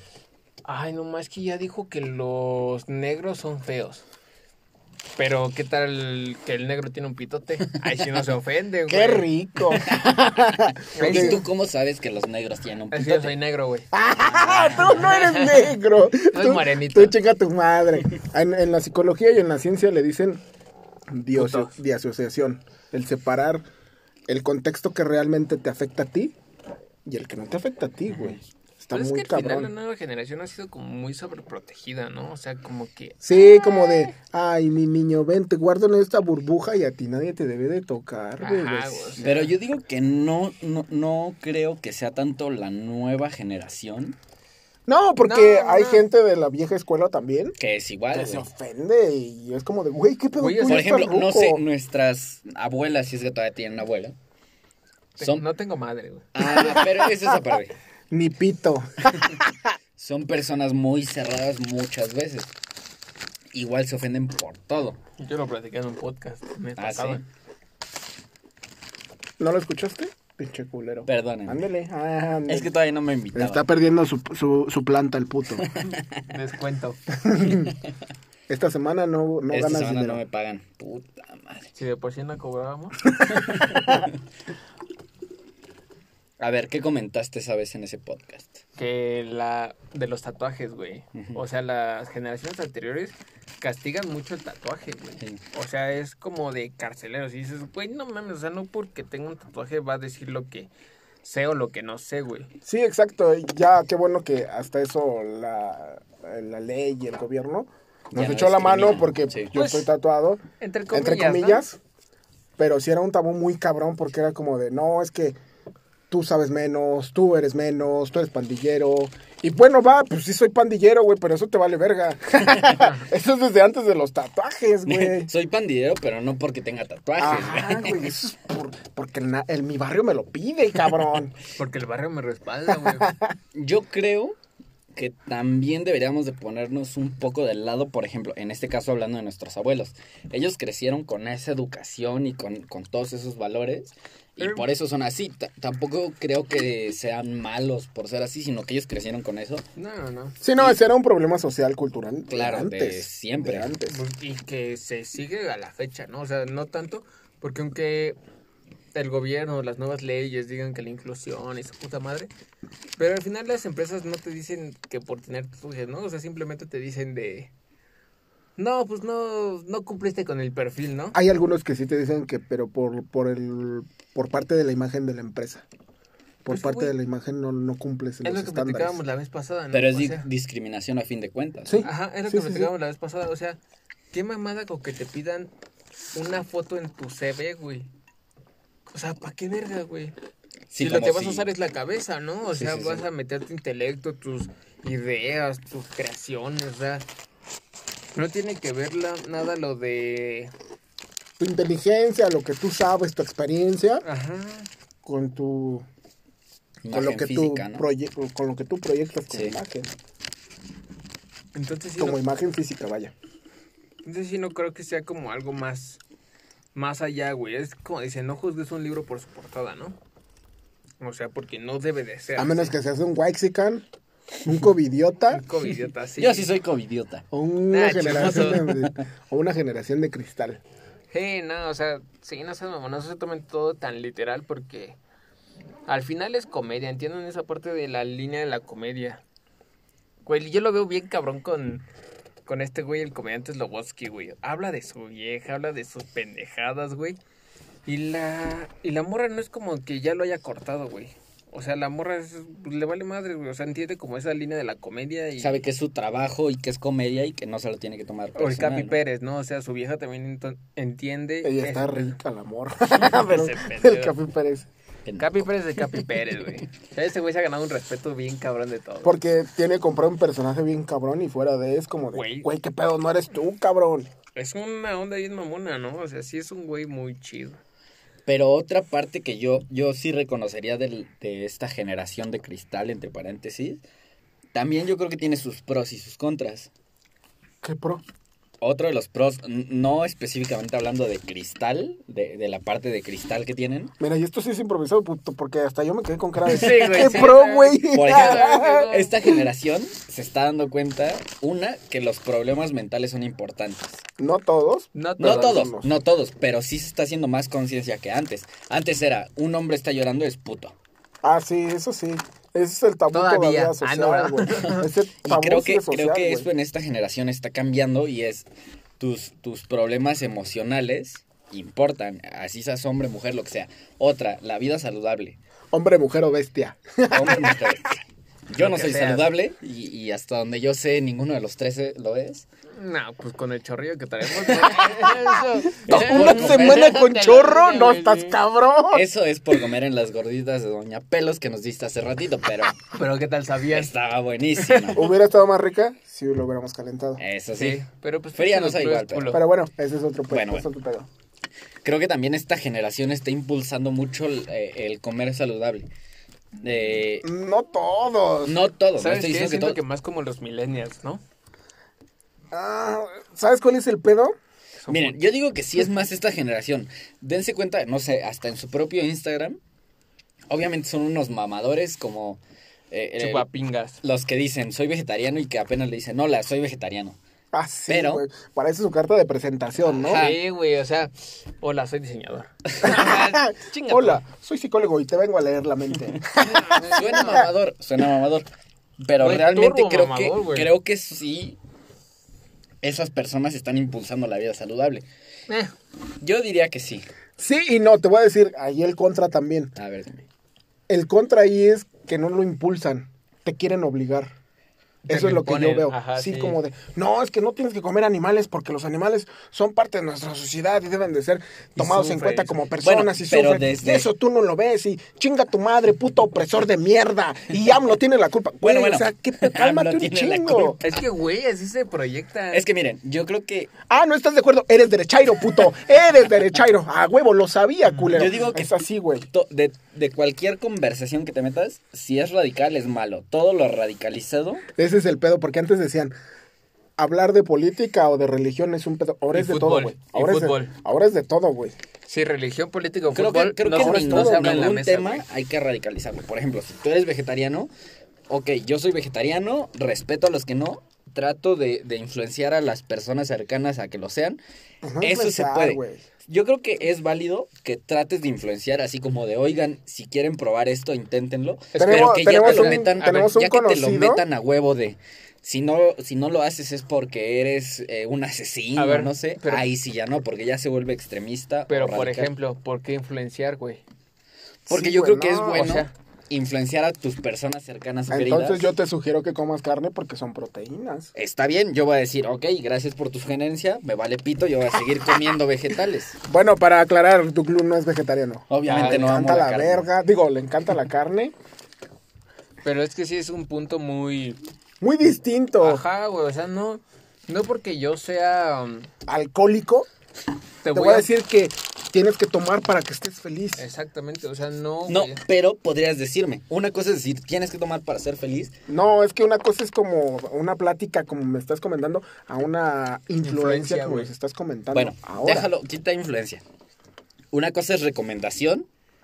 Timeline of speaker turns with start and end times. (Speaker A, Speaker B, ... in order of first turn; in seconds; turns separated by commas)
Speaker A: 0.7-4.0, Speaker A: 5.2-9.3, Speaker B: 8.9-11.4, Speaker A: 10.9-11.4, Speaker C: 11.0-13.3, Speaker A: 12.9-17.2, Speaker B: 13.9-20.4, Speaker B: 21.1-23.7, Speaker A: 21.3-21.7, Speaker B: 24.3-26.4, Speaker B: 27.1-29.7, Speaker A: 28.9-33.2, Speaker B: 33.2-39.3, Speaker A: 38.4-39.5, Speaker C: 39.2-44.2, Speaker B: 44.9-47.6, Speaker A: 45.2-46.1, Speaker C: 47.6-48.5, Speaker B: 48.1-51.6, Speaker A: 50.4-50.9, Speaker C: 50.7-54.1, Speaker C: 55.2-55.5, Speaker A: 55.2-56.8, Speaker C: 56.4-57.8, Speaker B: 56.4-57.4, Speaker B: 58.1-59.7, Speaker C: 60.0-62.5, Speaker C: 63.5-65.0, Speaker A: 65.2-67.2, Speaker C: 66.8-67.2, Speaker B: 69.4-72.7, Speaker C: 71.1-71.6, Speaker C: 72.5-73.6, Speaker B: 73.3-75.7, Speaker C: 75.6-76.2, Speaker A: 76.3-77.0, Speaker B: 77.1-77.8, Speaker B: 78.5-80.2, Speaker C: 79.5-81.7, Speaker A: 81.8-83.0, Speaker B: 83.3-84.0, Speaker C: 83.3-84.1, Speaker C: 86.4-88.6, Speaker A: 88.8-100.7, Speaker A: 101.2-102.5, Speaker B: 102.7-111.8, Speaker C: 108.1-109.5, Speaker A: 109.5-109.9, Speaker A: 110.6-111.7, Speaker B: 112.6-115.4, Speaker B: 116.1-125.3, Speaker A: 122.8-123.0, Speaker C: 124.9-128.1, Speaker B: 127.2-131.3, Speaker A: 131.6-133.2, Speaker B: 132.7-133.3, Speaker C: 133.5-134.4, Speaker C: 134.9-149.7, Speaker A: 144.4-144.7, Speaker A: 149.8-150.4, Speaker B: 150.4-154.0, Speaker C: 152.3-153.7, Speaker A: 153.9-158.2, Speaker A: 158.9-162.3, Speaker A: 163.0-167.5, Speaker A: 168.6-171.2, Speaker B: 171.1-175.7, Speaker B: 176.4-179.0, Speaker A: 176.5-176.9, Speaker A: 178.2-180.2, Speaker C: 179.7-181.9, Speaker B: 181.7-182.7, Speaker A: 181.8-183.6, Speaker A: 184.1-185.5, Speaker A: 186.1-187.9, Speaker A: 188.9-190.2, Speaker C: 190.7-191.5, Speaker A: 190.8-197.1, Speaker C: 192.5-193.1, Speaker A: 198.2-200.5, Speaker B: 201.4-204.1, Speaker A: 204.0-204.7, Speaker B: 205.0-205.9, Speaker C: 206.8-207.8, Speaker B: 206.9-209.9, Speaker C: 209.3-209.6, Speaker A: 211.6-212.2, Speaker B: 212.0-213.1, Speaker A: 214.1-216.0, Speaker A: 216.8-220.0, Speaker A: 221.0-222.8, Speaker B: 222.4-223.8, Speaker B: 224.4-225.4, Speaker A: 225.3-226.5, Speaker C: 226.2-227.2, Speaker B: 227.3-230.6, Speaker A: 227.7-228.7, Speaker C: 228.0-229.0, Speaker A: 231.1-235.0, Speaker A: 235.9-239.2, Speaker A: 240.2-241.8, Speaker A: 242.5-247.2, Speaker A: 247.9-255.6, Speaker C: 255.4-259.0, Speaker A: 258.4-262.1, Speaker B: 261.4-264.7, Speaker A: 262.9-264.1, Speaker C: 265.1-266.1, Speaker A: 265.2-269.2, Speaker B: 269.0-274.1, Speaker A: 272.1-272.5, Speaker A: 274.4-277.6, Speaker C: 278.2-283.8, Speaker C: 284.5-286.7, Speaker B: 287.6-288.0, Speaker C: 288.6-293.9, Speaker B: 294.0-299.4, Speaker A: 296.5-299.1, Speaker C: 297.9-304.0, Speaker B: 304.2-305.9, Speaker A: 304.9-305.7, Speaker C: 305.2-310.8, Speaker B: 311.2-316.5, Speaker A: 313.1-314.9, Speaker C: 314.6-318.5, Speaker C: 319.0-325.4, Speaker B: 325.7-327.7, Speaker C: 327.1-332.5, Speaker A: 328.6-329.3, Speaker A: 332.8-338.4, Speaker B: 335.8-339.1, Speaker C: 335.9-336.9, Speaker C: 338.9-342.8, Speaker A: 342.9-343.9, Speaker C: 343.7-345.1, Speaker A: 344.6-345.0, Speaker B: 344.9-347.2, Speaker C: 347.2-347.8, Speaker A: 347.6-349.4, Speaker C: 348.4-349.4, Speaker B: 349.3-351.1, Speaker C: 350.3-350.6, Speaker C: 351.8-355.9, Speaker C: 356.6-357.3, Speaker B: 357.2-358.6, Speaker C: 358.4-359.8, Speaker A: 359.0-361.2, Speaker B: 362.5-364.4, Speaker A: 364.8-365.2, Speaker C: 364.9-369.6, Speaker C: 370.5-372.4, Speaker C: 372.9-373.5, Speaker A: 373.2-374.0, Speaker C: 374.0-377.2, Speaker B: 377.5-380.3, Speaker C: 377.9-378.2, Speaker A: 379.9-384.2, Speaker C: 380.0-380.4, Speaker B: 382.8-387.5, Speaker A: 386.4-387.5, Speaker C: 386.9-388.5, Speaker C: 389.0-391.6, Speaker A: 389.2-390.7, Speaker C: 392.8-395.1, Speaker C: 396.2-397.1, Speaker B: 397.4-399.7, Speaker C: 399.8-400.2, Speaker B: 400.9-404.3, Speaker B: 405.1-420.8, Speaker A: 405.1-406.6, Speaker A: 411.8-412.6, Speaker C: 412.8-414.1, Speaker C: 418.6-420.9, Speaker A: 420.8-422.6, Speaker C: 422.5-423.7, Speaker B: 423.9-429.3, Speaker C: 428.1-428.8, Speaker C: 429.3-434.6, Speaker B: 434.8-436.1, Speaker B: 437.0-441.8, Speaker A: 439.3-440.7, Speaker A: 442.1-445.2, Speaker C: 443.1-447.7, Speaker B: 443.7-444.6, Speaker C: 448.3-454.4, Speaker B: 454.8-456.0, Speaker C: 455.0-472.3, Speaker A: 461.8-463.3, Speaker B: 461.8-464.2, Speaker A: 468.8-469.6, Speaker A: 471.7-473.8, Speaker B: 474.7-475.7, Speaker C: 474.7-478.7, Speaker A: 475.5-475.9, Speaker B: 478.1-481.1, Speaker C: 481.1-486.2, Speaker B: 486.3-491.3, Speaker C: 488.5-489.9, Speaker A: 488.6-489.1, Speaker A: 492.6-494.4, Speaker B: 494.8-495.8, Speaker A: 495.6-498.9, Speaker B: 499.1-499.9, Speaker A: 500.6-501.1, Speaker B: 500.7-503.6, Speaker A: 503.6-505.2, Speaker C: 504.9-508.5, Speaker B: 508.7-515.5, Speaker A: 513.2-514.1, Speaker C: 514.7-516.4, Speaker C: 517.3-518.7